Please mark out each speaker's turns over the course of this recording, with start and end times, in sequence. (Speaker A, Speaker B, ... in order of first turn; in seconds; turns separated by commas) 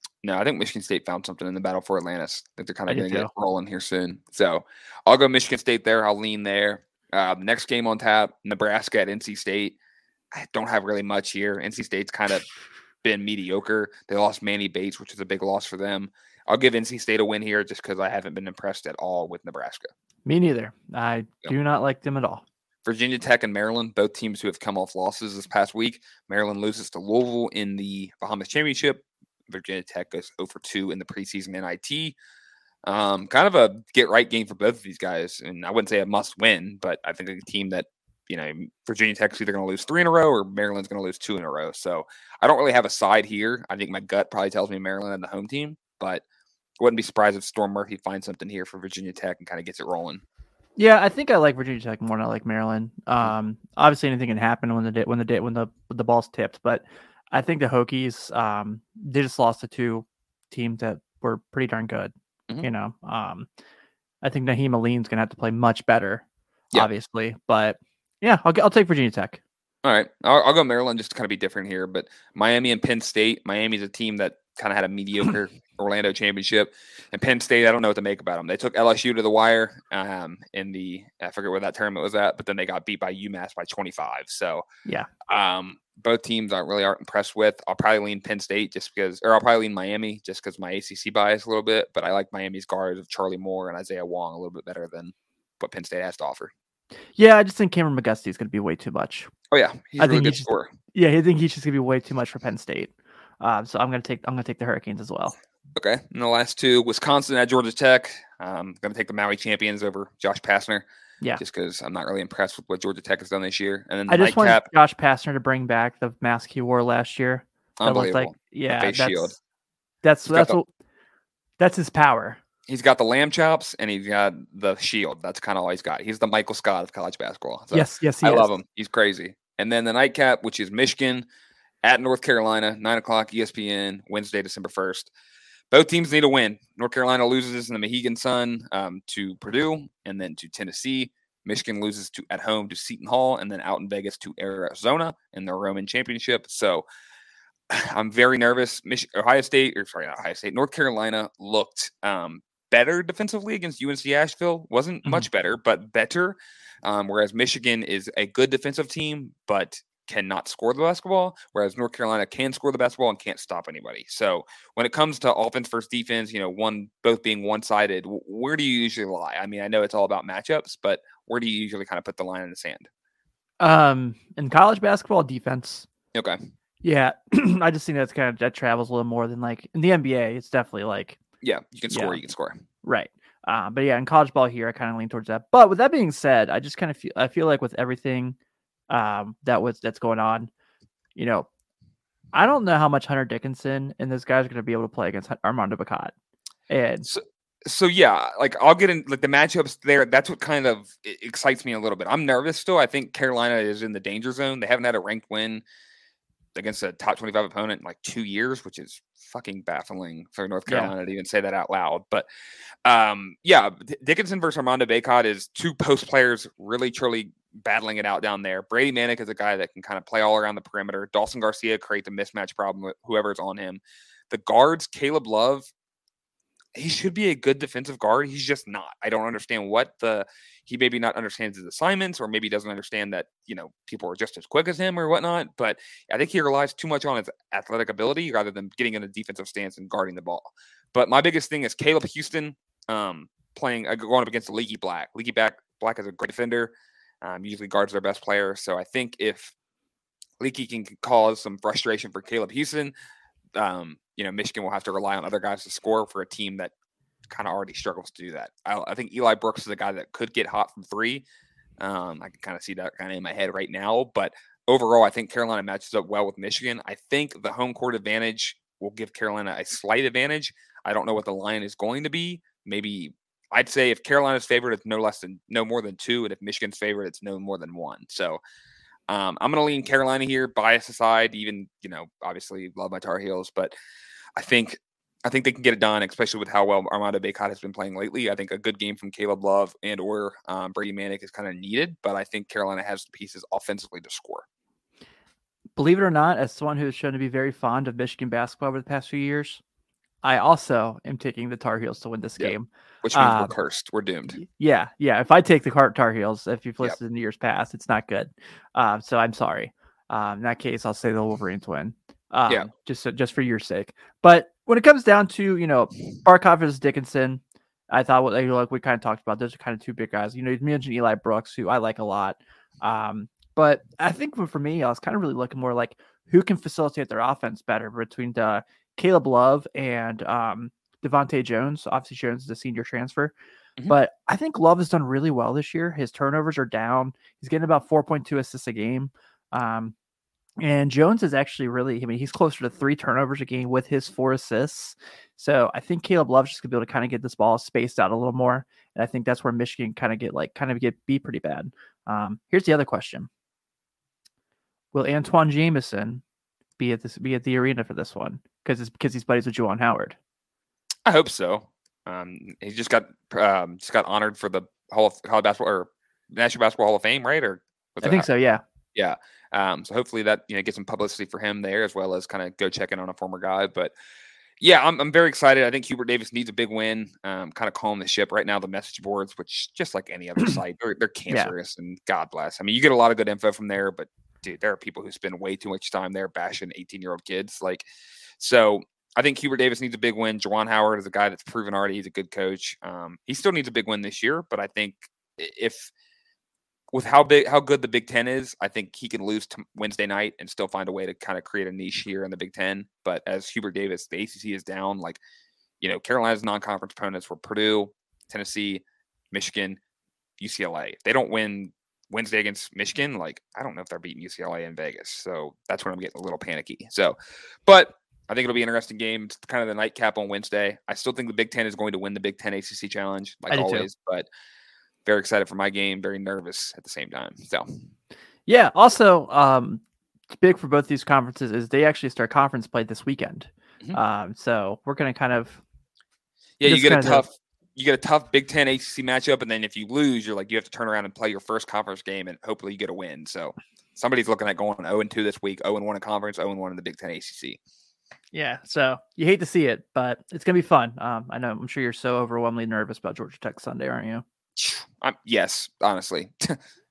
Speaker A: 0.2-9.8, Speaker B: 2.9-3.3, Speaker A: 10.3-12.4, Speaker A: 13.0-19.9, Speaker B: 20.2-22.4, Speaker A: 22.8-32.1, Speaker A: 32.9-46.2, Speaker A: 46.8-50.2, Speaker B: 50.8-63.5, Speaker B: 64.2-66.2, Speaker B: 66.7-69.4, Speaker A: 69.8-84.6, Speaker A: 85.3-96.5, Speaker B: 97.2-99.3, Speaker A: 99.5-100.7, Speaker B: 100.0-105.3, Speaker A: 105.7-110.8, Speaker A: 111.4-114.7, Speaker B: 114.1-119.4, Speaker A: 117.8-119.4, Speaker B: 120.0-120.7, Speaker A: 120.3-120.6, Speaker B: 121.6-122.4, Speaker A: 122.7-131.2, Speaker B: 127.7-128.5, Speaker A: 131.8-135.1, Speaker A: 135.7-146.8, Speaker A: 147.7-172.9, Speaker B: 173.6-175.9, Speaker A: 176.1-176.4, Speaker B: 176.8-181.2, Speaker A: 181.4-182.6, Speaker B: 181.9-182.2, Speaker B: 182.8-188.3, Speaker B: 188.9-190.5, Speaker B: 191.1-191.5, Speaker B: 192.3-196.1, Speaker B: 196.7-197.1, Speaker A: 197.0-205.6, Speaker A: 206.5-212.2, Speaker B: 210.7-210.9, Speaker A: 212.8-225.7, Speaker A: 226.7-249.5, Speaker A: 250.4-252.9, Speaker A: 253.5-256.7, Speaker A: 257.3-261.2, Speaker A: 261.8-278.4, Speaker A: 279.1-283.7, Speaker A: 284.4-294.4, Speaker B: 295.8-299.6, Speaker B: 300.2-303.5, Speaker A: 302.4-304.4, Speaker B: 304.4-333.3, Speaker B: 333.9-339.9, Speaker B: 340.6-353.3, Speaker B: 354.9-356.2, Speaker B: 356.8-360.2, Speaker A: 361.1-368.2, Speaker B: 368.0-368.6, Speaker A: 368.9-373.9, Speaker A: 374.6-387.9, Speaker A: 388.4-395.9, Speaker A: 396.9-405.2, Speaker A: 405.8-409.8, Speaker A: 410.4-417.1, Speaker A: 417.6-424.3, Speaker B: 423.5-423.9, Speaker A: 425.1-427.8, Speaker B: 428.5-429.8, Speaker B: 430.3-435.6, Speaker A: 436.6-447.6, Speaker B: 436.6-437.2, Speaker B: 448.3-454.2, Speaker A: 454.6-456.6